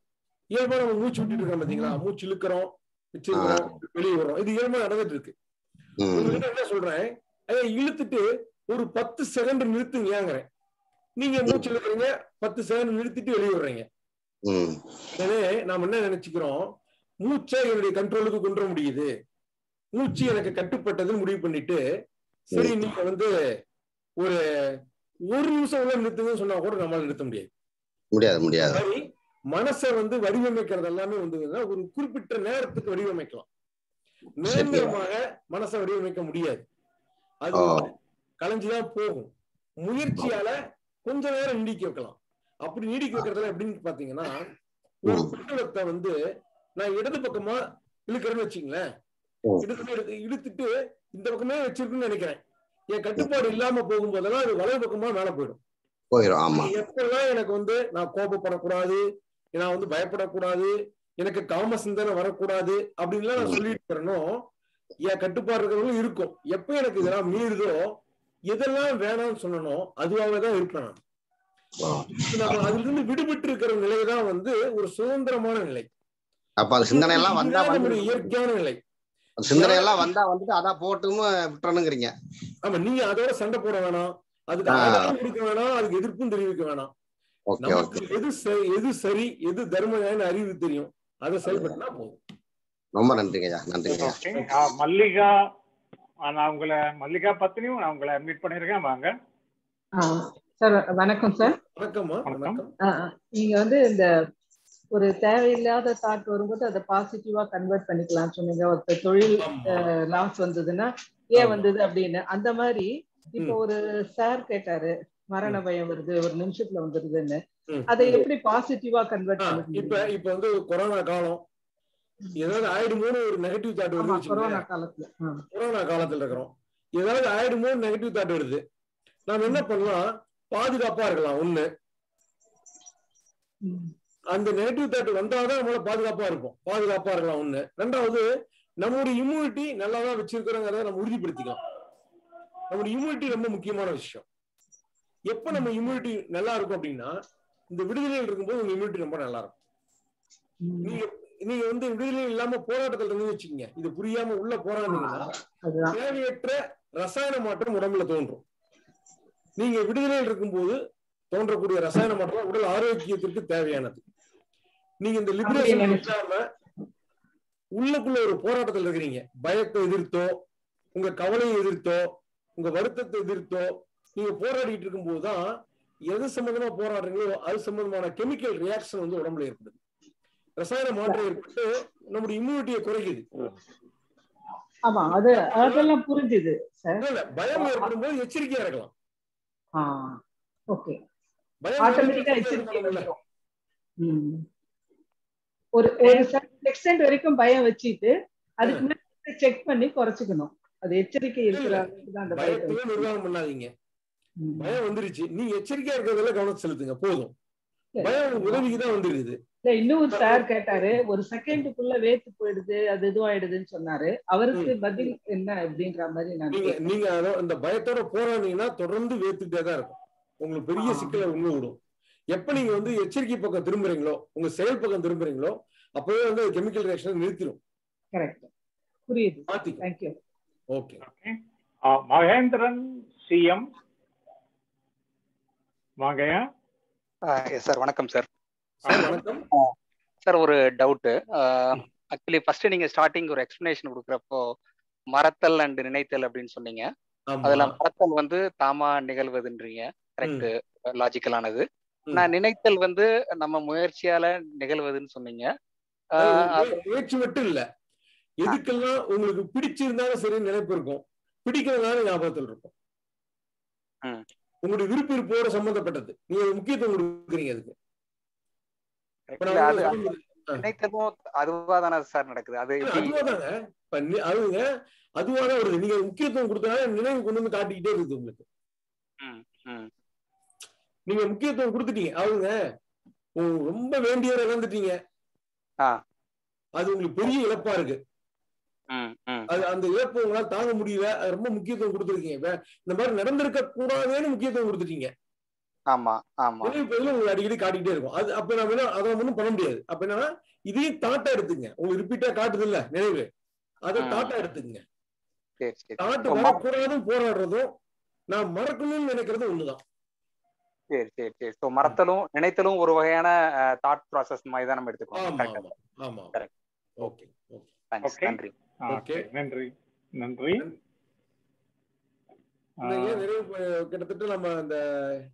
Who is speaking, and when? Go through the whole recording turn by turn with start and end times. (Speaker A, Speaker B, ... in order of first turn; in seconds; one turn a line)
Speaker A: 0.5-5.3
Speaker B: 3.3-3.7
Speaker B: 6.0-6.4
Speaker A: 6.2-10.5
Speaker A: 11.2-13.9
Speaker B: 14.5-14.8
Speaker A: 15.2-16.7
Speaker A: 17.2-19.1
Speaker A: 19.9-21.8
Speaker A: 22.5-23.3
Speaker B: 22.5-22.8
Speaker A: 25.3-27.5
Speaker B: 28.1-28.8
Speaker A: 28.7-33.5
Speaker A: 34.4-36.7
Speaker B: 34.4-34.9
Speaker A: 37.4-39.3
Speaker B: 37.6-37.9
Speaker A: 39.8-44.5
Speaker A: 45.0-46.1
Speaker B: 45.1-45.3
Speaker A: 46.8-48.8
Speaker A: 49.6-52.4
Speaker A: 52.9-55.6
Speaker B: 56.1-56.7
Speaker A: 56.5-59.0
Speaker A: 59.6-64.4
Speaker B: 63.4-63.6
Speaker A: 65.1-68.0
Speaker A: 68.5-71.0
Speaker B: 71.8-72.7
Speaker A: 72.1-75.9
Speaker B: 76.6-78.3
Speaker A: 76.9-78.8
Speaker B: 79.4-82.1
Speaker A: 79.5-80.1
Speaker A: 82.6-86.9
Speaker B: 84.7-85.2
Speaker B: 87.5-88.1
Speaker A: 87.6-92.2
Speaker B: 91.5-91.8
Speaker B: 93.0-94.2
Speaker C: 94.0-95.3
Speaker C: 96.3-99.1
Speaker D: 100.0-101.6
Speaker A: 101.8-102.7
Speaker C: 102.3-102.6
Speaker D: 102.9-104.1
Speaker D: 104.9-120.1
Speaker A: 109.4-109.9
Speaker A: 111.4-111.7
Speaker A: 117.7-118.2
Speaker A: 119.4-121.4
Speaker A: 122.4-124.7
Speaker D: 124.0-125.4
Speaker A: 125.5-128.6
Speaker A: 129.3-131.7
Speaker D: 133.7-133.9
Speaker A: 134.3-138.3
Speaker A: 138.8-141.6
Speaker A: 142.7-144.2
Speaker A: 145.3-147.1
Speaker A: 147.7-149.6
Speaker D: 150.6-151.0
Speaker A: 150.8-155.3
Speaker D: 154.9-156.0
Speaker A: 155.9-158.4
Speaker A: 159.6-160.8
Speaker A: 161.3-164.0
Speaker A: 165.0-166.4
Speaker D: 165.4-166.1
Speaker A: 167.8-170.4
Speaker A: 170.9-175.4
Speaker A: 176.1-179.8
Speaker A: 180.6-183.2
Speaker D: 181.1-181.4
Speaker D: 184.9-187.9
Speaker A: 185.3-185.9
Speaker A: 187.0-188.9
Speaker D: 189.8-190.2
Speaker D: 190.7-191.0
Speaker A: 191.6-193.1
Speaker D: 191.8-193.2
Speaker D: 194.0-194.4
Speaker D: 195.8-203.1
Speaker A: 201.5-203.7
Speaker D: 204.4-204.8
Speaker A: 204.6-207.3
Speaker D: 207.9-208.7
Speaker A: 208.0-209.4
Speaker D: 209.7-216.9
Speaker A: 210.1-210.4
Speaker A: 216.5-221.8
Speaker D: 220.8-221.2
Speaker A: 222.3-227.6
Speaker D: 228.1-228.5
Speaker D: 229.1-230.2
Speaker A: 229.5-229.8
Speaker A: 230.7-231.0
Speaker C: 231.1-231.4
Speaker C: 231.9-233.6
Speaker C: 236.0-236.4
Speaker E: 237.3-238.3
Speaker A: 238.9-239.4
Speaker C: 238.9-239.1
Speaker E: 240.2-244.5
Speaker E: 245.1-246.9
Speaker A: 247.3-247.7
Speaker E: 247.4-255.5
Speaker E: 256.2-256.8
Speaker A: 256.2-257.7
Speaker A: 258.4-262.7
Speaker A: 264.6-267.7
Speaker E: 269.3-270.0
Speaker A: 269.4-270.6
Speaker E: 270.6-273.2
Speaker A: 272.8-274.6
Speaker A: 275.2-278.4
Speaker E: 279.2-279.9
Speaker A: 281.1-282.5
Speaker A: 283.4-285.0
Speaker A: 286.8-288.0
Speaker E: 288.9-289.5
Speaker A: 289.5-295.1
Speaker E: 295.9-296.8
Speaker A: 296.6-303.3
Speaker A: 303.9-304.8
Speaker E: 304.0-304.3
Speaker E: 305.6-306.6
Speaker A: 306.0-307.7
Speaker A: 308.3-309.8
Speaker E: 310.9-315.6
Speaker A: 315.1-316.3
Speaker A: 317.0-317.7
Speaker E: 317.9-318.5
Speaker C: 318.0-320.6
Speaker A: 318.9-319.3
Speaker A: 322.9-325.2
Speaker C: 322.9-323.2